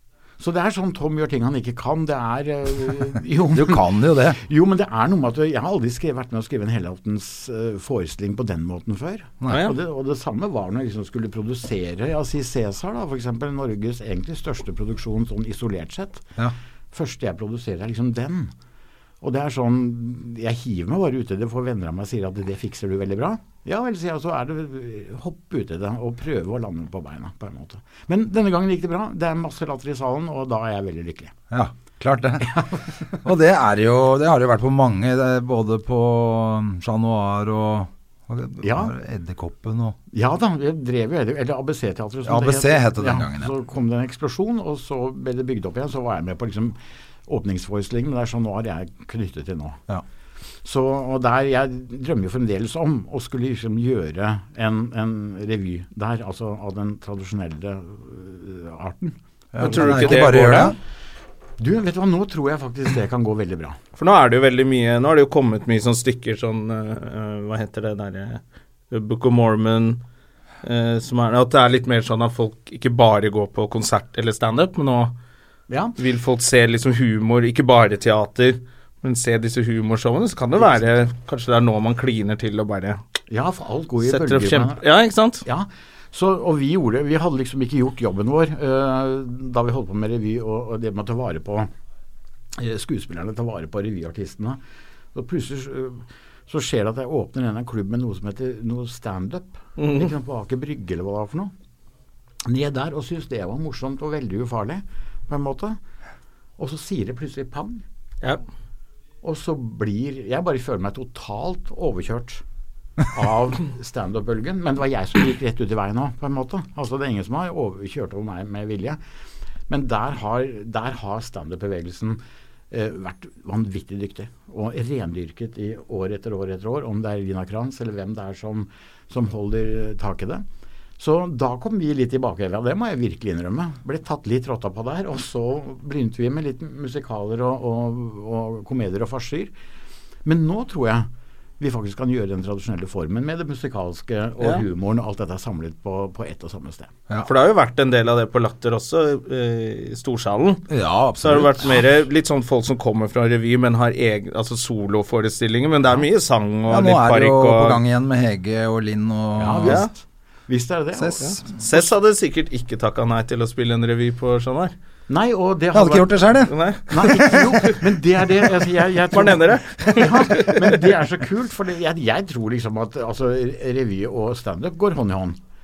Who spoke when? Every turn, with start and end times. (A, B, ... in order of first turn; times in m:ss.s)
0:00.4-0:16.3 A
0:03.4-0:04.4 B
0:09.4-0:09.7 B
0:09.5-0:09.8 C
0:16.9-0:18.5 A
0:19.2-0:31.3 A
0:31.5-0:32.7 B
0:33.2-0:40.0 B
0:38.6-0:38.9 A
0:40.1-0:46.8 A
0:42.2-0:43.5 B
0:47.3-0:49.8 A
0:50.6-1:00.5 A
0:59.5-1:00.8 B
0:59.6-1:00.8 C
1:01.6-1:03.8 A
1:04.0-1:10.0 C
1:10.6-1:15.1 C
1:15.7-1:16.0 A
1:16.0-1:23.0 C
1:23.3-1:24.8 A
1:24.0-1:25.4 C
1:25.4-1:31.7 A
1:32.5-1:34.6 A
1:35.1-1:41.5 A
1:39.8-1:40.1 C
1:42.4-1:45.8 A
1:46.6-1:47.8 A
1:49.2-1:52.4 A
1:53.1-1:59.0 A
1:59.7-2:02.2 A
2:02.7-2:10.4 A
2:11.0-2:19.5 A
2:20.2-2:21.1 A
2:21.6-2:26.9 A
2:27.2-2:37.8 C
2:30.7-2:31.9 B
2:36.7-2:39.8 B
2:39.4-2:41.3 A
2:39.6-2:39.9 C
2:41.0-2:41.8 B
2:41.2-2:44.7 C
2:45.1-2:46.3 A
2:45.7-2:47.6 B
2:46.5-2:47.8 C
2:46.9-2:55.4 A
2:49.1-2:50.8 C